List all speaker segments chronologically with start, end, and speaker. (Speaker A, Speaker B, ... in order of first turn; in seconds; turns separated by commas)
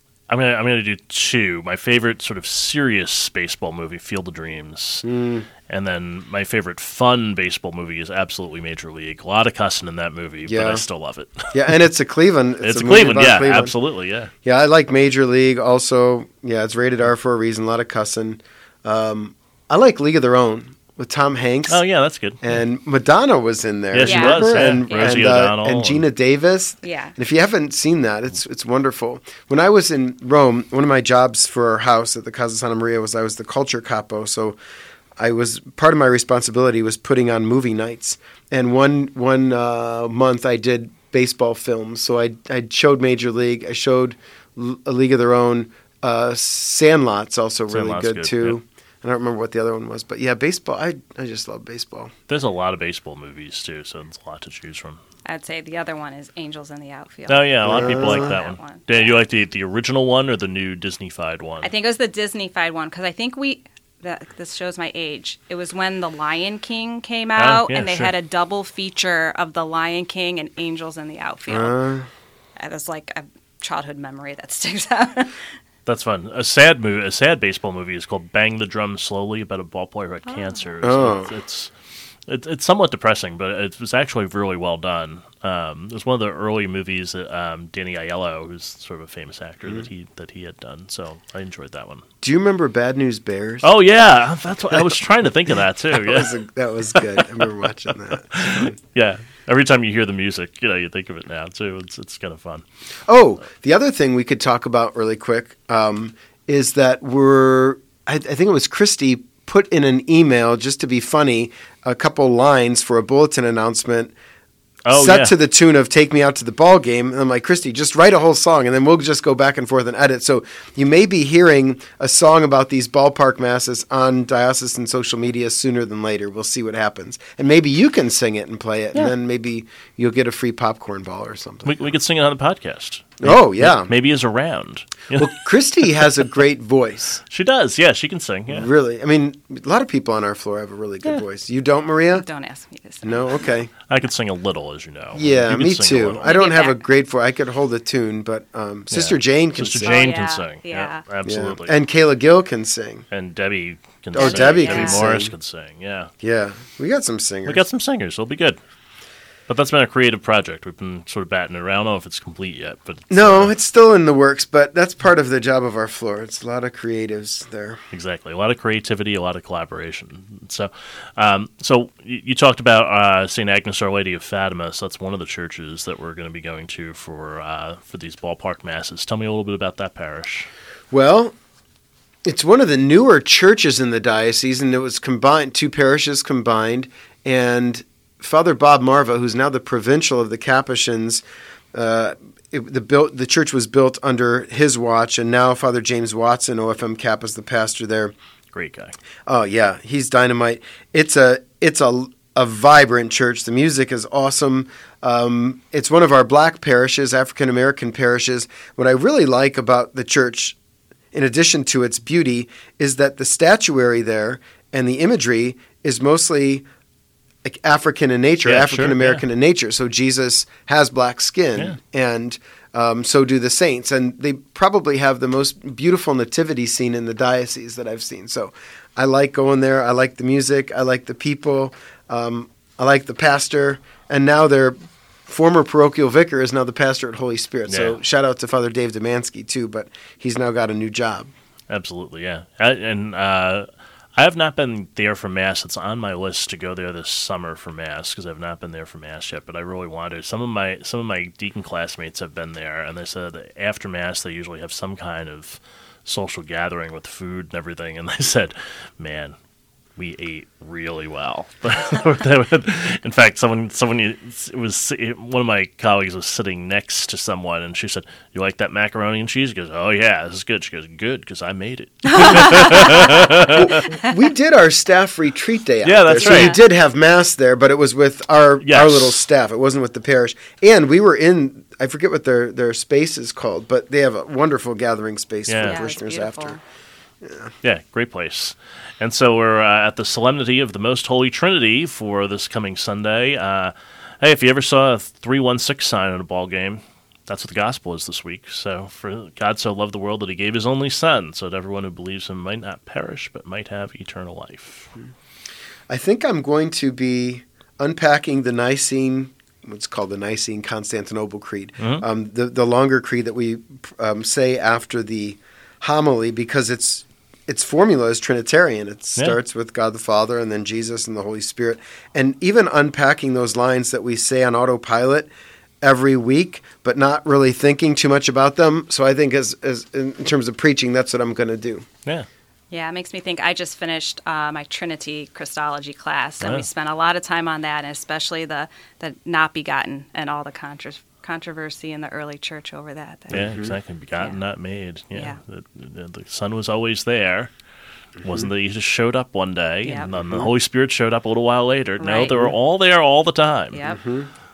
Speaker A: 0.3-5.1, Speaker B: 5.0-5.5, Speaker A: 5.7-11.8, Speaker B: 10.4-10.8, Speaker B: 11.5-13.7, Speaker A: 12.6-14.3, Speaker B: 14.4-21.8, Speaker A: 21.7-22.6, Speaker B: 22.4-34.6, Speaker A: 23.9-26.0, Speaker C: 24.0-25.3, Speaker C: 26.8-27.1, Speaker B: 35.2-52.1, Speaker A: 47.7-48.6, Speaker A: 52.3-55.0, Speaker C: 55.2-59.1, Speaker A: 57.3-61.7, Speaker B: 57.6-58.3, Speaker C: 61.6-71.8, Speaker A: 67.4-68.1, Speaker B: 71.5-72.1, Speaker C: 72.6-75.4, Speaker A: 75.8-81.7, Speaker C: 80.3-80.6, Speaker B: 80.8-81.3, Speaker A: 82.3-92.0, Speaker B: 92.2-93.7, Speaker A: 93.6-96.3, Speaker B: 95.9-98.7, Speaker A: 96.9-97.5, Speaker A: 98.2-102.6, Speaker B: 103.1-114.1, Speaker A: 114.8-115.3, Speaker B: 114.9-131.9, Speaker A: 131.6-136.1, Speaker B: 133.2-133.9, Speaker B: 135.1-137.2, Speaker A: 137.3-138.7, Speaker B: 138.5-142.2, Speaker C: 142.1-143.5, Speaker B: 143.0-143.7, Speaker A: 143.9-146.3, Speaker B: 145.1-150.1, Speaker C: 146.2-146.8, Speaker A: 148.9-151.8, Speaker C: 149.8-151.0, Speaker B: 151.2-153.1, Speaker A: 153.1-156.1, Speaker B: 154.1-155.3, Speaker C: 154.2-155.1, Speaker B: 156.2-157.6, Speaker A: 157.4-158.6, Speaker A: 159.5-163.5, Speaker B: 163.1-167.8, Speaker A: 167.9-180.5, Speaker B: 180.9-181.3, Speaker B: 182.2-198.1, Speaker A: 198.5-198.9, Speaker B: 199.2-210.6, Speaker B: 211.1-216.7, Speaker B: 217.4-241.3, Speaker A: 218.4-219.2, Speaker A: 237.7-238.0, Speaker A: 241.7-259.4, Speaker A: 260.0-273.9, Speaker C: 272.1-274.1, Speaker B: 272.7-286.6, Speaker A: 275.8-276.6, Speaker C: 276.2-276.6, Speaker A: 278.6-279.2, Speaker A: 285.5-285.8, Speaker C: 285.6-286.6, Speaker B: 287.2-287.5, Speaker A: 287.6-304.9, Speaker B: 305.9-325.3, Speaker A: 311.8-312.1, Speaker B: 325.8-331.9, Speaker C: 332.7-343.5, Speaker A: 336.4-336.6, Speaker A: 343.3-347.5, Speaker B: 343.3-343.7, Speaker A: 348.2-353.8, Speaker B: 348.2-348.5, Speaker C: 349.8-350.3, Speaker C: 352.0-352.5, Speaker C: 353.7-354.0, Speaker B: 353.9-354.3